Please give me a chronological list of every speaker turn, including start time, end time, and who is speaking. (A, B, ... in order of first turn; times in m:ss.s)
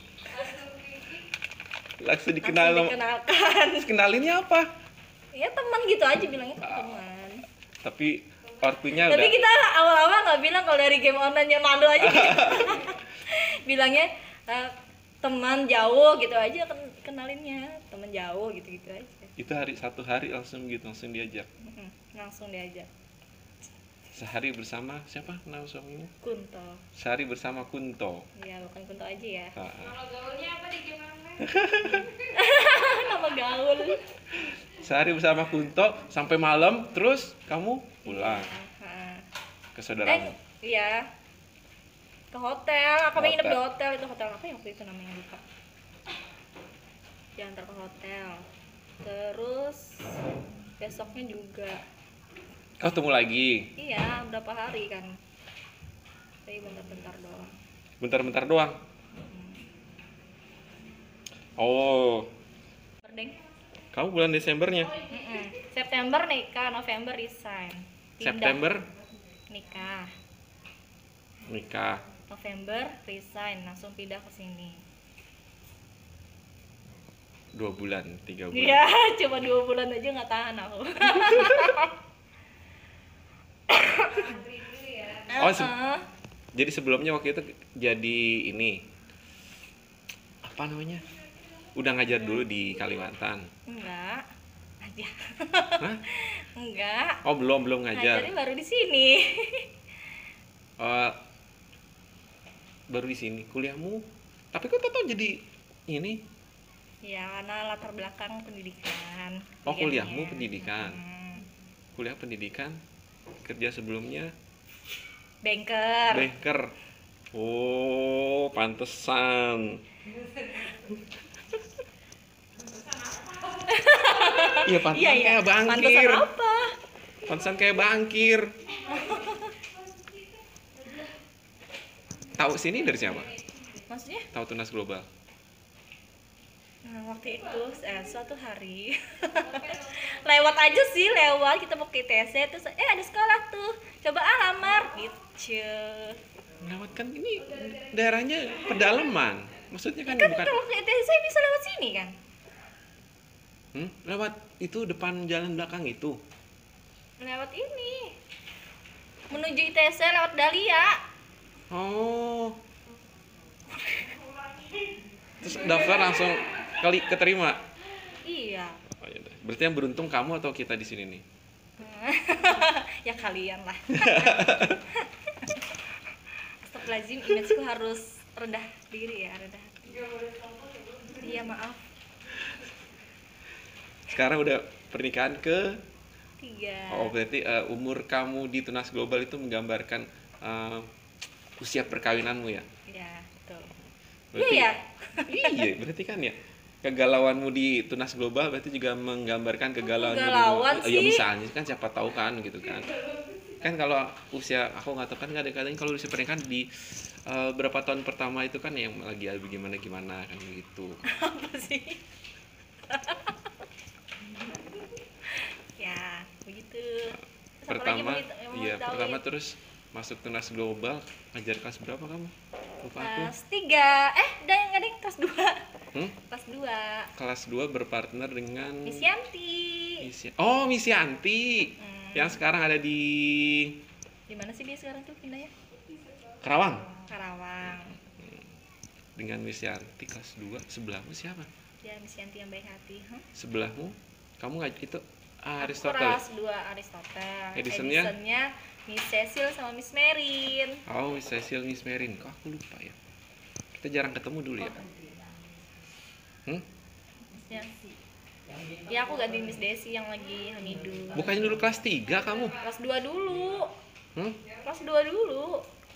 0:00.3-0:01.2 A
0:02.0-0:03.0 B
0:02.4-0:03.9 C
0:03.8-0:04.7 B
0:05.3-0:07.4 C
0:07.8-0:09.4 B
0:09.0-0:19.3 C
0:12.0-0:12.8 B
0:19.4-0:21.5 B
0:21.6-0:22.9 C
0:24.1-0:26.1 B
0:26.2-0:26.8 C
0:27.0-0:28.3 B
0:28.4-0:29.6 C
0:29.6-0:30.0 B
0:30.0-0:31.5 A
0:31.4-0:32.1 B
0:32.2-0:34.0 C
0:34.4-0:38.5 B
0:38.0-0:39.3 C
0:39.7-0:40.3 B
0:40.1-0:41.1 C
0:42.3-0:45.4 C
0:43.2-0:43.6 B
0:47.4-0:48.4 C
0:49.0-0:50.2 C
0:50.8-0:51.8 C
0:52.8-0:53.7 B
0:53.8-0:55.2 C
0:56.5-0:57.5 C
0:58.0-0:58.8 B
0:59.2-0:59.6 C
1:01.6-1:02.3 B
1:03.0-1:03.4 C
1:03.9-1:05.0 B
1:05.0-1:08.7 C
1:08.2-1:08.9 B
1:09.5-1:10.1 C
1:11.5-1:12.0 B
1:12.3-1:14.8 C
1:17.6-1:18.8 B
1:18.5-1:21.9 C
1:23.7-1:24.4 C
1:24.2-1:25.3 A
1:25.3-1:26.0 C
1:25.4-1:25.7 B
1:26.6-1:28.8 B
1:30.4-1:31.0 B
1:31.8-1:33.5 B
1:33.7-1:34.2 C
1:34.8-1:37.2 C
1:37.2-1:38.3 B
1:37.9-1:39.7 C
1:40.8-1:41.2 B
1:42.9-1:45.4 B
1:45.9-1:46.2 B
1:47.0-1:51.5 C
1:49.6-1:51.0 B
1:52.0-1:52.8 B
1:53.4-1:54.3 B
1:55.4-1:56.3 C
1:56.1-1:56.8 B
1:57.3-1:59.8 B
2:03.1-2:03.4 A
2:03.7-2:06.7 C
2:04.6-2:06.3 B
2:07.2-2:08.6 B
2:08.9-2:09.5 C
2:09.1-2:11.1 A
2:12.4-2:13.4 B
2:13.9-2:14.3 C
2:14.3-2:15.1 B
2:16.8-2:26.2 C
2:26.6-2:30.6 B
2:30.0-2:32.1 C
2:33.7-2:36.2 B
2:37.2-2:38.2 C
2:39.3-2:41.0 C
2:41.7-2:42.6 B
2:43.7-2:44.2 C
2:45.4-2:47.6 B
2:48.2-2:48.8 C
2:48.9-2:51.2 B
2:51.8-2:55.8 C
2:53.9-2:54.8 B
2:56.6-3:00.1 C
3:01.1-3:01.8 C
3:04.1-3:05.8 B
3:06.4-3:07.1 C
3:06.9-3:10.9 B
3:11.6-3:12.7 B
3:12.9-3:13.8 C
3:14.3-3:14.7 B
3:14.4-3:15.7 C
3:15.3-3:23.0 B
3:19.8-3:21.3 C
3:23.6-3:31.0 B
3:31.1-3:32.0 C
3:32.9-3:33.4 C
3:35.4-3:39.2 C
3:37.7-3:43.3 B
3:43.0-3:45.6 C
3:46.2-3:47.1 C
3:47.2-3:49.1 B
3:48.8-3:50.1 C
3:50.0-3:53.8 B
3:51.8-3:52.4 C
3:54.3-3:55.5 C
3:56.4-3:56.9 B
3:57.0-3:58.0 C
3:59.2-4:01.5 B
4:01.8-4:03.2 C
4:03.3-4:06.2 B
4:05.6-4:10.8 C
4:07.6-4:08.1 B
4:10.9-4:13.0 B
4:13.8-4:14.8 B
4:17.3-4:17.7 C
4:18.9-4:21.4 C
4:21.2-4:22.6 B
4:22.6-4:23.7 C
4:24.6-4:25.6 C